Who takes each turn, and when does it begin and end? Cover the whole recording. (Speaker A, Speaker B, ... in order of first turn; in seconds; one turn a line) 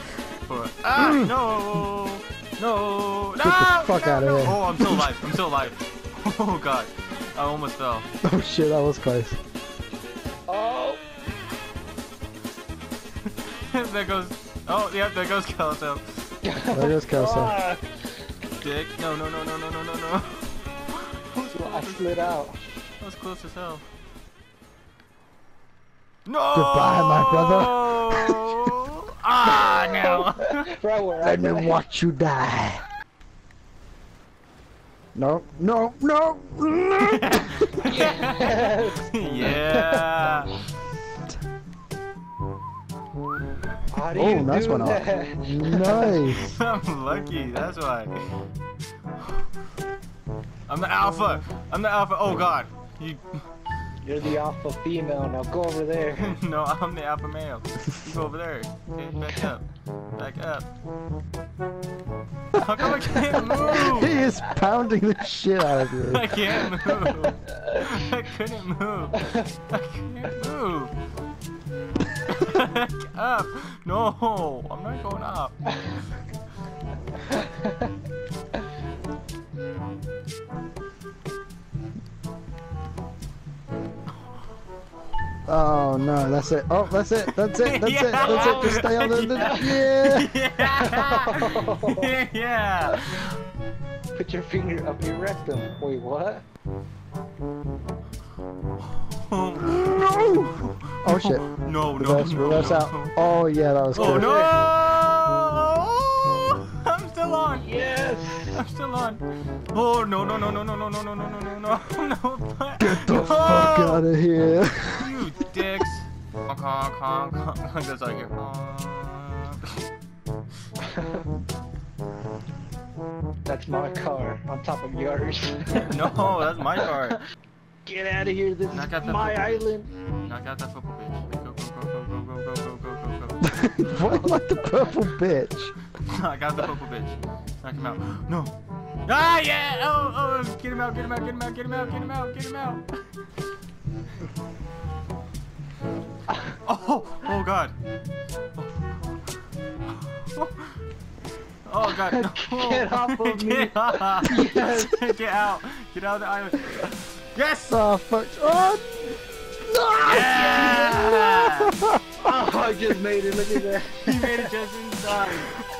Speaker A: 0.5-8.1
Speaker B: 1.0-1.3
Speaker B: 3.4-5.4
Speaker B: 8.2-9.4
Speaker C: 10.5-11.0
Speaker A: 13.5-16.3
Speaker C: 16.4-17.9
Speaker B: 16.7-17.6
Speaker A: 18.6-22.4
Speaker C: 21.5-22.6
Speaker A: 23.0-23.8
Speaker A: 26.3-30.7
Speaker B: 26.5-28.5
Speaker C: 29.5-31.8
Speaker B: 31.2-32.8
Speaker B: 35.1-37.7
Speaker A: 37.0-40.6
Speaker C: 37.8-40.1
Speaker C: 43.9-46.2
Speaker B: 44.1-46.5
Speaker A: 46.1-48.1
Speaker A: 50.7-53.4
Speaker C: 54.0-56.4
Speaker A: 56.2-60.7
Speaker A: 62.5-64.2
Speaker B: 62.9-66.4
Speaker C: 63.7-64.5
Speaker A: 65.9-70.9
Speaker C: 67.0-67.8
Speaker C: 69.2-69.4
Speaker A: 72.3-75.5
Speaker C: 77.3-77.9
Speaker B: 85.5-90.3
Speaker A: 87.2-93.4
Speaker C: 88.2-88.7
Speaker C: 89.4-89.7
Speaker C: 90.7-92.1
Speaker C: 94.2-96.4
Speaker A: 98.9-103.1
Speaker B: 99.7-104.4
Speaker A: 104.0-107.7
Speaker C: 104.0-104.6
Speaker C: 107.6-108.6
Speaker A: 108.5-109.2
Speaker A: 109.7-114.0
Speaker B: 112.8-115.2
Speaker A: 115.0-119.6
Speaker C: 120.8-121.3
Speaker C: 123.5-126.0
Speaker A: 125.8-127.2
Speaker C: 127.9-129.9
Speaker A: 128.7-133.5
Speaker B: 133.4-135.8
Speaker C: 134.1-134.7
Speaker A: 136.1-138.5
Speaker A: 139.1-142.8
Speaker A: 146.7-147.7
Speaker A: 150.3-150.7
Speaker A: 151.7-157.8
Speaker C: 151.9-155.0
Speaker B: 157.7-159.1
Speaker B: 159.7-161.9
Speaker A: 160.1-161.8
Speaker C: 160.1-160.9
Speaker C: 162.2-164.5
Speaker A: 164.0-165.6